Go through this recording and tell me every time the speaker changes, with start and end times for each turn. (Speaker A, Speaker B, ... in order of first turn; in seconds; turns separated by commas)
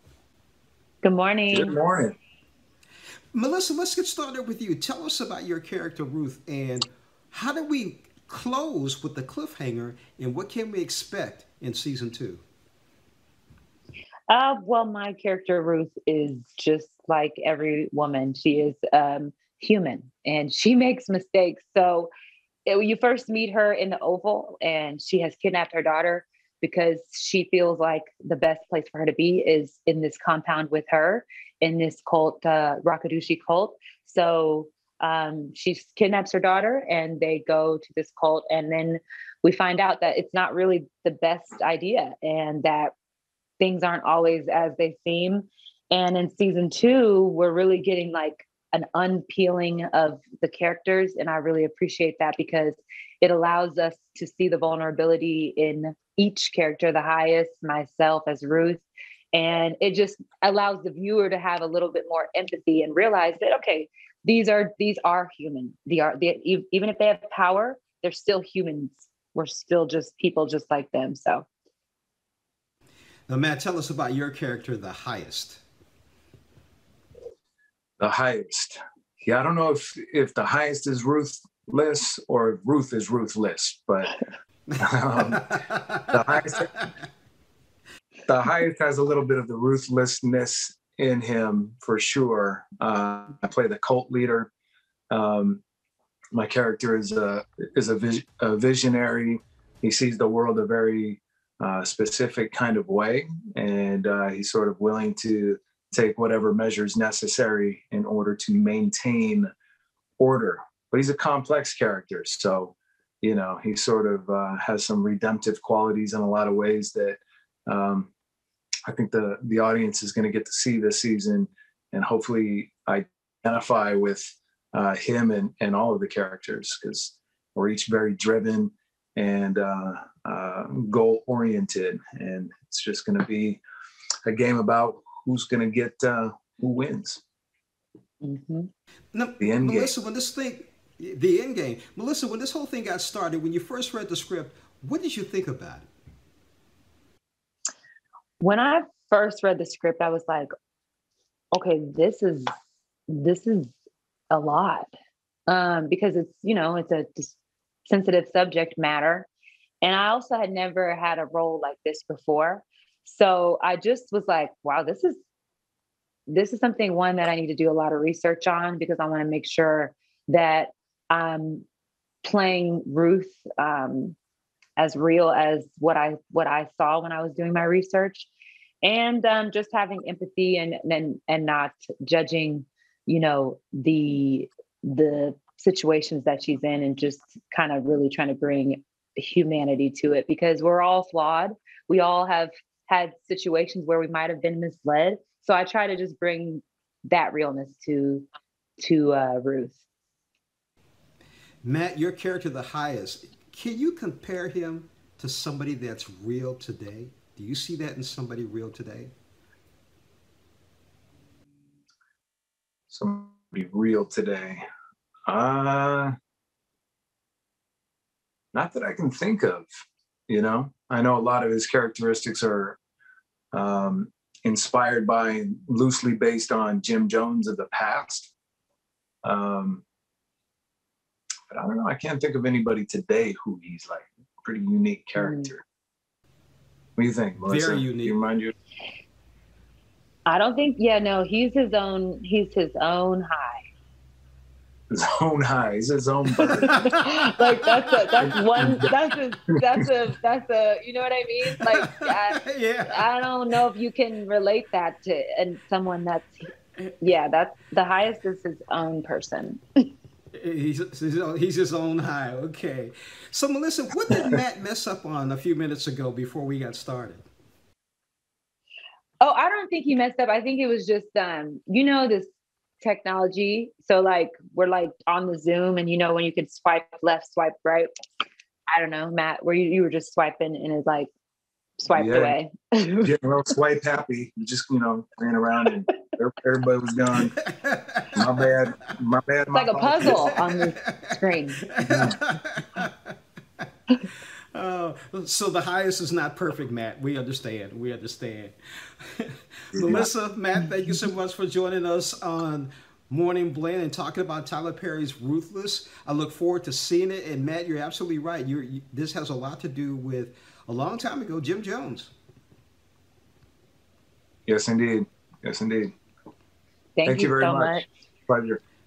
Speaker A: 1.0-1.8, Speaker B: 1.5-2.1, Speaker C: 3.3-12.4, Speaker A: 14.3-22.1, Speaker A: 22.6-42.9, Speaker A: 43.6-71.5, Speaker C: 73.3-75.6, Speaker B: 78.0-84.1, Speaker B: 84.7-86.7, Speaker C: 85.5-86.0, Speaker B: 88.3-94.5, Speaker B: 95.1-95.6, Speaker B: 96.3-109.5, Speaker B: 110.2-118.1, Speaker B: 118.9-133.6, Speaker B: 134.2-137.2, Speaker A: 138.2-138.7, Speaker C: 139.1-145.9, Speaker B: 139.4-139.9, Speaker A: 148.4-150.5, Speaker A: 151.5-152.4, Speaker A: 153.1-153.7, Speaker A: 154.3-154.9, Speaker A: 155.5-157.3, Speaker A: 157.9-159.3, Speaker A: 159.8-165.2, Speaker A: 166.3-171.6, Speaker A: 172.2-174.2, Speaker A: 174.8-178.3, Speaker A: 178.8-198.3, Speaker A: 198.8-199.8, Speaker C: 201.6-209.1, Speaker B: 212.9-214.6, Speaker B: 215.3-216.1, Speaker B: 218.5-219.7, Speaker B: 220.3-222.8, Speaker B: 223.5-228.3, Speaker B: 229.2-229.8, Speaker B: 231.5-235.6, Speaker A: 235.2-235.5, Speaker B: 236.9-238.5, Speaker C: 237.4-238.2, Speaker A: 240.2-243.6, Speaker B: 244.9-246.7, Speaker A: 246.6-259.6, Speaker C: 246.6-248.2, Speaker B: 248.2-248.8, Speaker C: 251.5-253.1, Speaker C: 260.3-267.2, Speaker A: 269.2-272.3, Speaker A: 272.8-277.9, Speaker A: 278.7-281.1, Speaker A: 281.8-283.1, Speaker B: 281.9-282.3, Speaker B: 283.0-287.3, Speaker C: 287.3-288.5, Speaker B: 288.1-290.3, Speaker A: 289.5-291.6, Speaker C: 290.0-291.1, Speaker C: 291.7-292.9, Speaker B: 291.8-292.2, Speaker C: 294.5-312.1, Speaker B: 299.7-300.1, Speaker B: 314.5-315.9, Speaker A: 317.0-317.8, Speaker B: 317.0-318.6